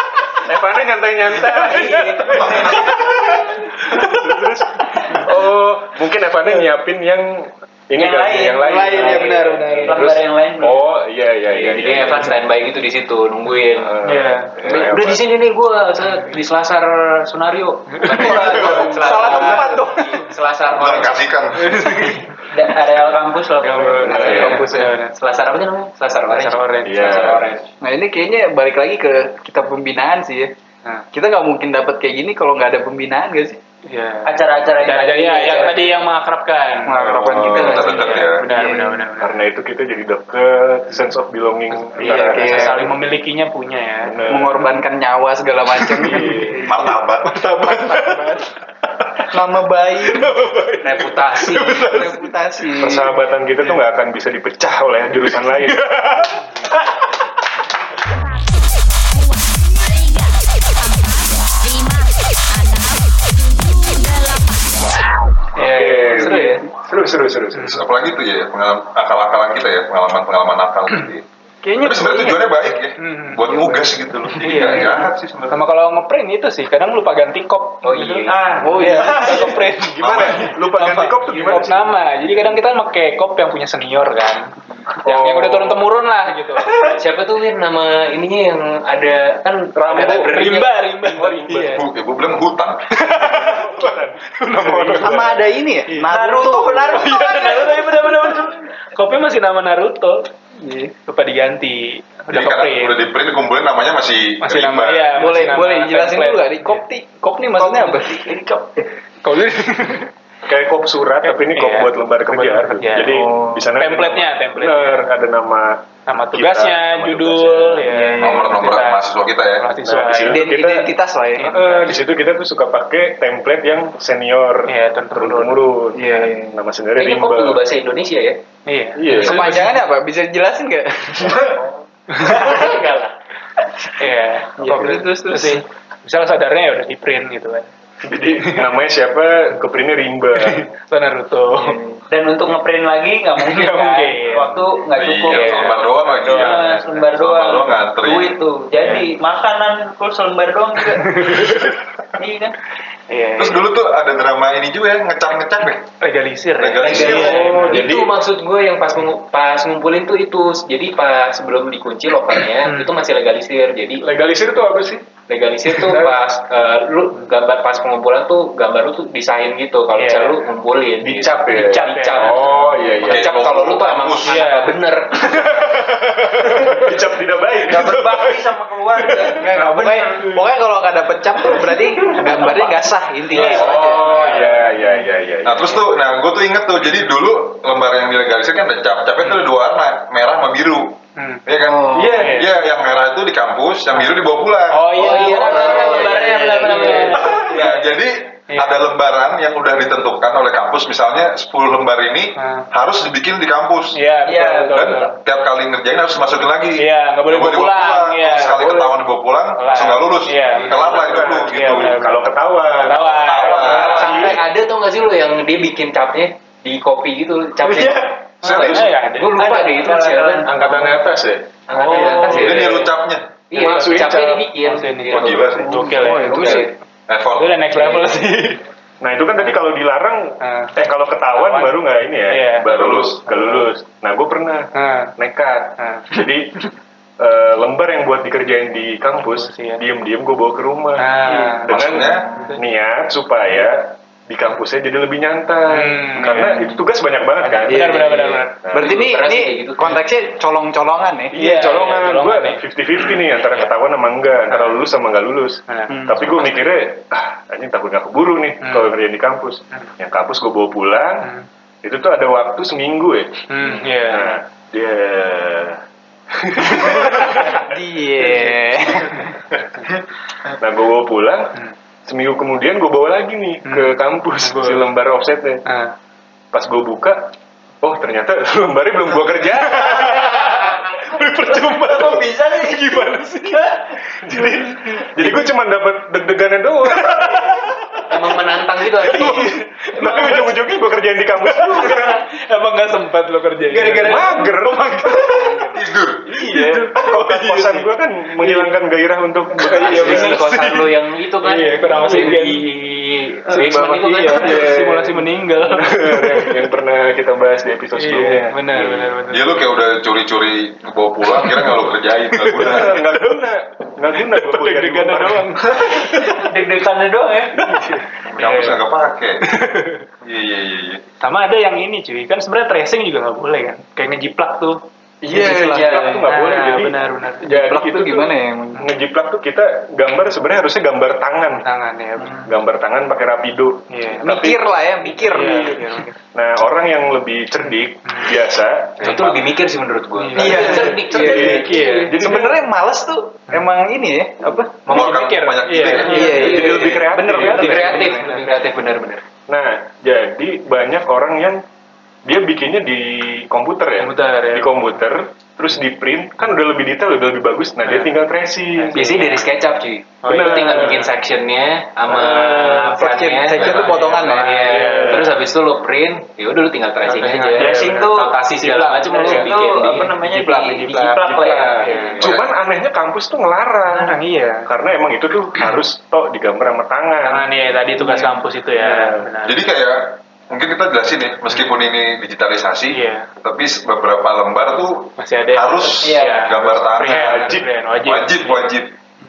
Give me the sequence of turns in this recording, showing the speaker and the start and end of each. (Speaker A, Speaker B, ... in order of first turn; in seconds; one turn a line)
Speaker A: 0.5-2.3
Speaker B: 1.2-5.2
Speaker C: 1.5-2.5
Speaker D: 2.3-3.4
Speaker A: 3.9-9.2
Speaker E: 8.0-10.8
Speaker B: 8.6-10.1
Speaker C: 9.2-10.0
Speaker A: 9.9-12.3
Speaker C: 11.5-13.9
Speaker A: 13.8-15.2
Speaker B: 14.0-14.5
Speaker C: 14.6-21.3
Speaker B: 18.0-18.8
Speaker E: 18.1-19.7
Speaker F: 18.2-20.2
Speaker D: 20.7-21.9
Speaker B: 21.6-22.4
Speaker E: 22.5-24.8
Speaker A: 23.6-24.9
Speaker C: 24.1-27.7
Speaker B: 24.3-25.1
Speaker F: 24.4-24.7
Speaker B: 26.3-27.2
Speaker A: 26.8-27.5
Speaker F: 27.8-30.5
Speaker F: 31.1-33.6
Speaker B: 33.9-39.4
Speaker E: 34.2-36.0
Speaker F: 36.8-39.1
Speaker A: 37.1-37.8
Speaker D: 37.2-38.4
Speaker A: 39.1-42.9
Speaker B: 41.7-44.4
Speaker F: 42.0-42.9
Speaker A: 44.0-44.6
Speaker F: 44.2-46.7
Speaker B: 45.9-48.5
Speaker A: 46.0-46.6
Speaker D: 46.6-47.4
Speaker F: 47.5-48.4
Speaker F: 49.3-50.4
Speaker B: 50.0-52.3
Speaker C: 50.8-51.9
Speaker F: 51.9-53.1
Speaker A: 52.8-55.9
Speaker B: 55.6-56.9
Speaker B: 65.5-66.7
Speaker A: 65.5-67.8
Speaker B: 67.5-67.8
Speaker D: 67.7-71.2
Speaker F: 71.6-72.5
Speaker D: 71.8-75.7
Speaker B: 73.0-73.4
Speaker F: 73.4-73.9
Speaker B: 74.4-86.9
Speaker C: 77.8-78.4
Speaker E: 78.3-79.5
Speaker F: 78.6-79.6
Speaker A: 79.9-81.9
Speaker A: 85.0-85.8
Speaker C: 86.8-90.8
Speaker A: 89.7-91.8
Speaker B: 90.0-91.8
Speaker D: 91.7-92.9
Speaker B: 92.9-95.4
Speaker A: 93.1-95.4
Speaker F: 94.9-97.2
Speaker E: 96.0-97.8
Speaker B: 96.9-100.3
Speaker F: 100.6-100.9
Speaker B: 101.0-103.0
Speaker D: 102.3-105.4
Speaker B: 104.4-106.8
Speaker F: 105.1-108.2
Speaker E: 107.6-108.8
Speaker B: 109.2-110.1
Speaker A: 110.5-118.0
Speaker B: 111.2-115.0
Speaker F: 113.2-113.5
Speaker B: 116.1-119.0
Speaker F: 117.9-118.6
Speaker D: 118.2-119.7
Speaker B: 119.6-120.6
Speaker A: 119.8-120.9
Speaker F: 120.2-121.8
Speaker B: 121.4-122.1
Speaker A: 121.4-127.6
Speaker B: 124.7-125.7
Speaker F: 125.9-126.5
Speaker C: 127.0-128.4
Speaker B: 128.7-129.9
Speaker A: 128.9-129.7
Speaker F: 129.2-131.6
Speaker B: 132.1-132.7
Speaker C: 132.3-132.8
Speaker E: 132.5-133.1
Speaker B: 134.0-137.7
Speaker F: 134.6-135.6
Speaker A: 138.0-140.6
Speaker B: 140.4-141.8
Speaker E: 142.1-151.2
Speaker B: 143.4-144.6
Speaker D: 144.9-148.4
Speaker B: 145.3-146.6
Speaker B: 148.8-149.1
Speaker B: 150.9-151.8
Speaker E: 152.2-152.5
Speaker B: 153.1-153.6
Speaker D: 153.4-155.8
Speaker B: 156.0-157.9
Speaker D: 156.6-157.5
Speaker C: 156.8-164.0
Speaker A: 156.8-158.1
Speaker B: 162.7-162.9
Speaker A: 164.0-165.0
Speaker C: 165.3-175.7
Speaker A: 165.7-166.2
Speaker B: 169.9-170.5
Speaker A: 171.0-173.3
Speaker B: 171.6-172.8
Speaker D: 173.0-174.4
Speaker B: 174.2-177.0
Speaker A: 175.4-178.5
Speaker E: 177.6-180.2
Speaker B: 179.3-180.3
Speaker F: 179.3-184.1
Speaker B: 182.2-182.7
Speaker B: 183.3-185.1
Speaker A: 183.3-185.8
Speaker D: 185.4-190.9
Speaker B: 191.2-191.4
Speaker D: 191.4-195.4
Speaker F: 191.7-192.3
Speaker A: 191.9-192.4
Speaker B: 192.1-192.6
Speaker B: 194.7-197.8
Speaker C: 194.9-197.3
Speaker E: 195.1-197.8
Speaker D: 197.3-211.9
Speaker B: 202.4-202.7
Speaker B: 203.9-205.1
Speaker E: 204.2-205.0
Speaker B: 206.8-208.8
Speaker A: 208.5-208.9
Speaker B: 209.6-214.4
Speaker C: 210.6-211.0
Speaker A: 210.7-214.3
Speaker D: 213.2-214.3
Speaker C: 213.5-220.6
Speaker B: 217.6-219.8
Speaker D: 218.4-218.9
Speaker E: 219.4-220.9
Speaker A: 220.4-221.9
Speaker C: 221.7-222.9
Speaker B: 221.7-222.9
Speaker D: 222.1-223.3
Speaker C: 223.5-225.6
Speaker A: 223.5-224.5
Speaker B: 223.6-226.7
Speaker D: 225.0-225.9
Speaker F: 225.7-226.7
Speaker C: 226.2-226.7
Speaker D: 227.1-228.1
Speaker B: 227.4-228.6
Speaker A: 229.0-236.6
Speaker B: 230.4-230.7
Speaker B: 231.3-233.7
Speaker D: 232.6-233.1
Speaker B: 234.7-235.1
Speaker B: 235.8-236.3
Speaker A: 237.2-249.0
Speaker B: 239.2-239.8
Speaker B: 241.0-242.6
Speaker D: 241.6-242.3
Speaker B: 245.7-246.7
Speaker B: 247.4-248.5
Speaker F: 247.7-251.4
Speaker C: 248.7-250.1
Speaker A: 251.3-261.3
Speaker B: 251.3-252.6
Speaker B: 254.5-254.8
Speaker B: 255.7-255.9
Speaker B: 258.6-259.0
Speaker A: 261.8-265.8
Speaker B: 263.5-264.4
Speaker A: 266.3-267.6
Speaker B: 266.7-267.5
Speaker F: 267.2-269.3
Speaker A: 270.6-275.6
Speaker B: 273.6-274.9
Speaker B: 275.6-275.9
Speaker A: 276.5-277.3
Speaker A: 277.8-280.6
Speaker B: 279.7-285.5
Speaker E: 280.4-283.7
Speaker A: 284.2-287.7
Speaker B: 287.0-288.0
Speaker C: 288.1-289.5
Speaker B: 288.9-295.8
Speaker A: 289.0-292.2
Speaker E: 293.7-294.4
Speaker A: 293.8-295.7
Speaker D: 295.7-296.2
Speaker A: 296.2-300.7
Speaker B: 296.4-298.7
Speaker B: 299.5-302.6
Speaker C: 299.6-304.6
Speaker B: 303.5-306.6
Speaker F: 303.6-304.0
Speaker A: 304.4-309.1
Speaker B: 307.9-309.6
Speaker D: 309.3-313.0
Speaker B: 311.4-313.4
Speaker A: 312.5-315.9
Speaker B: 314.2-316.5
Speaker E: 316.4-317.6
Speaker A: 317.6-318.7
Speaker D: 318.2-319.4
Speaker B: 318.4-318.7
Speaker B: 319.5-320.0
Speaker D: 320.2-321.0
Speaker B: 321.2-324.8
Speaker F: 325.2-326.2
Speaker A: 325.3-331.6
Speaker E: 325.7-326.2
Speaker B: 326.2-327.4
Speaker F: 327.5-328.9
Speaker B: 331.6-332.4
Speaker A: 332.4-334.6
Speaker B: 333.9-334.3
Speaker F: 334.2-335.9
Speaker B: 335.2-336.1
Speaker A: 336.3-339.4
Speaker B: 338.1-338.4
Speaker B: 339.0-339.3
Speaker C: 339.0-342.1
Speaker B: 340.2-342.2
Speaker F: 340.4-341.0
Speaker A: 340.4-342.6
Speaker E: 341.4-341.9
Speaker F: 342.1-344.7
Speaker B: 344.9-348.6
Speaker D: 344.9-346.4
Speaker F: 346.1-347.0
Speaker A: 346.1-348.1
Speaker C: 346.2-349.2
Speaker A: 349.5-351.6
Speaker A: 352.2-359.3
Speaker B: 354.0-354.7
Speaker B: 357.8-358.1
Speaker B: 358.8-359.6
Speaker C: 358.9-370.1
Speaker B: 360.2-361.1
Speaker A: 360.3-361.1
Speaker B: 362.2-362.9
Speaker F: 362.6-365.1
Speaker D: 363.6-363.9
Speaker B: 363.6-365.4
Speaker A: 364.8-365.2
Speaker B: 367.0-371.2
Speaker E: 367.6-368.3
Speaker E: 369.1-372.1
Speaker A: 371.2-379.3
Speaker B: 371.8-372.3
Speaker B: 373.8-374.7
Speaker B: 377.2-379.6
Speaker D: 379.4-388.9
Speaker B: 381.5-381.8
Speaker B: 382.9-383.3
Speaker B: 385.2-388.7
Speaker F: 386.1-386.5
Speaker A: 387.0-387.6